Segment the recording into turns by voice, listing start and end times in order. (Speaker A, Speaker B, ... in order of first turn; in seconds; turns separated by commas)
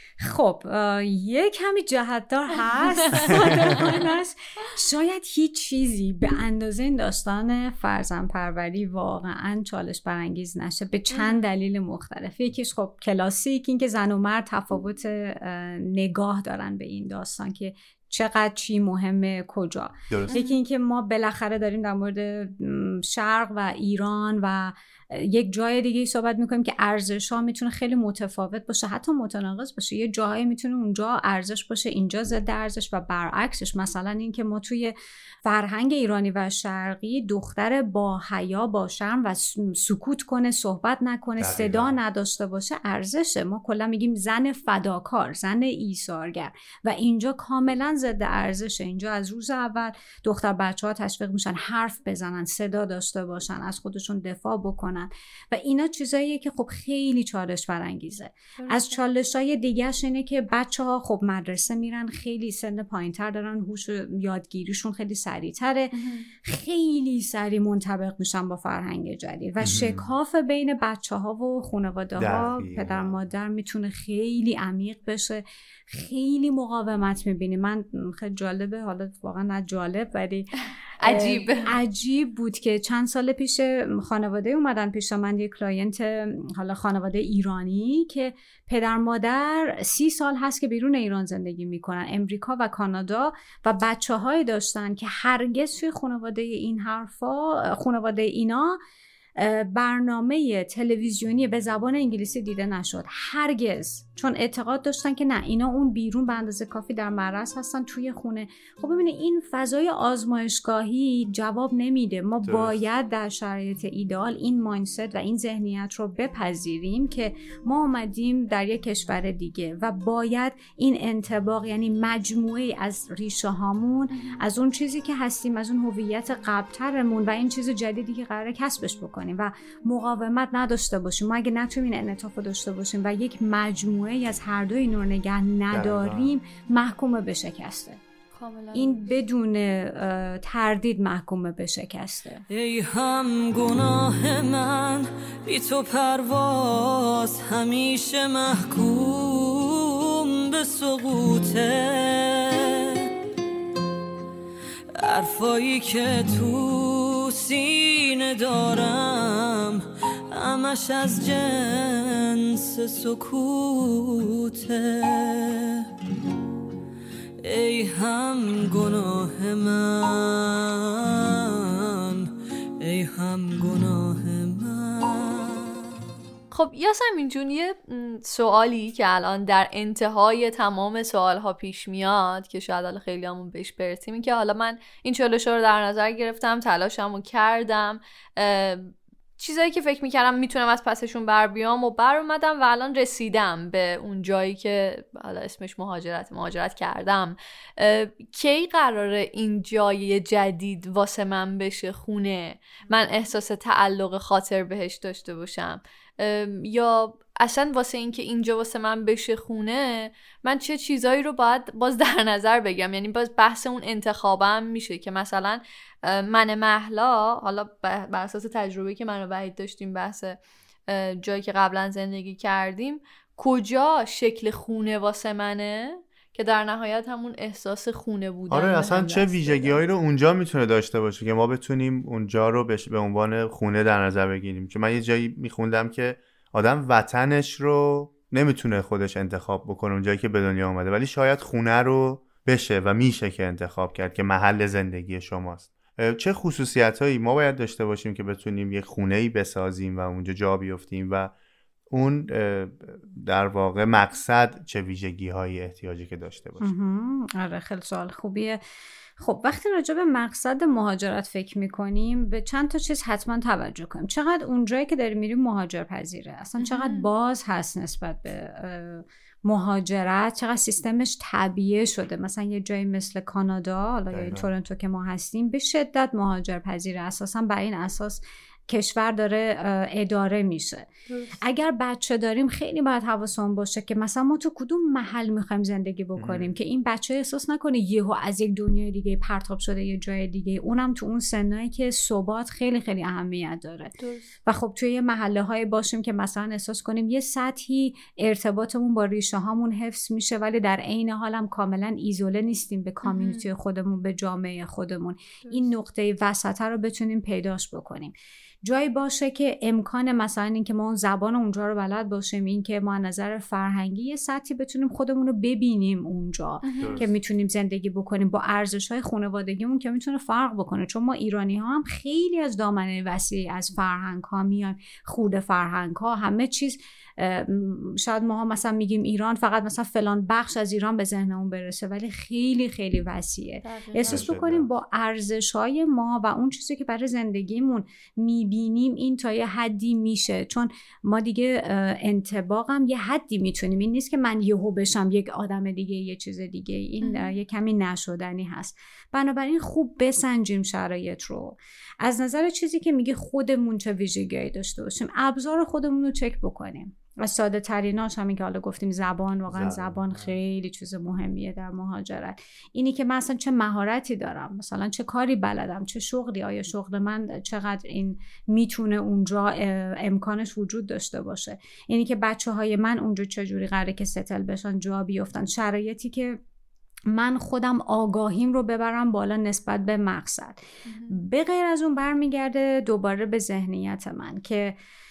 Speaker A: 0.2-65.9, Speaker B: 3.1-4.0, Speaker B: 11.1-11.5, Speaker C: 20.1-20.4, Speaker B: 20.3-20.6, Speaker C: 41.4-42.0, Speaker B: 58.6-59.0, Speaker B: 65.9-66.3, Speaker A: 66.4-98.8, Speaker C: 69.6-70.0, Speaker C: 72.2-73.2, Speaker B: 81.0-81.7, Speaker A: 99.4-138.0, Speaker C: 112.5-112.8, Speaker C: 135.7-136.3, Speaker B: 138.3-139.1, Speaker A: 138.7-142.4, Speaker D: 142.5-153.1, Speaker D: 155.0-165.8, Speaker D: 167.4-172.3, Speaker D: 172.8-175.7, Speaker B: 176.5-229.8, Speaker C: 228.5-251.3, Speaker C: 251.9-256.7, Speaker A: 256.6-258.6, Speaker A: 259.2-280.9, Speaker B: 266.6-267.1, Speaker C: 274.1-274.5, Speaker A: 281.4-293.9, Speaker C: 286.2-286.5, Speaker B: 294.0-294.3, Speaker A: 294.5-376.4, Speaker B: 303.0-303.5, Speaker B: 316.6-317.0, Speaker C: 316.8-317.1, Speaker B: 333.6-334.3, Speaker C: 334.1-334.7, Speaker B: 347.0-347.3, Speaker C: 359.5-360.4, Speaker A: 377.1-384.8, Speaker B: 380.9-381.2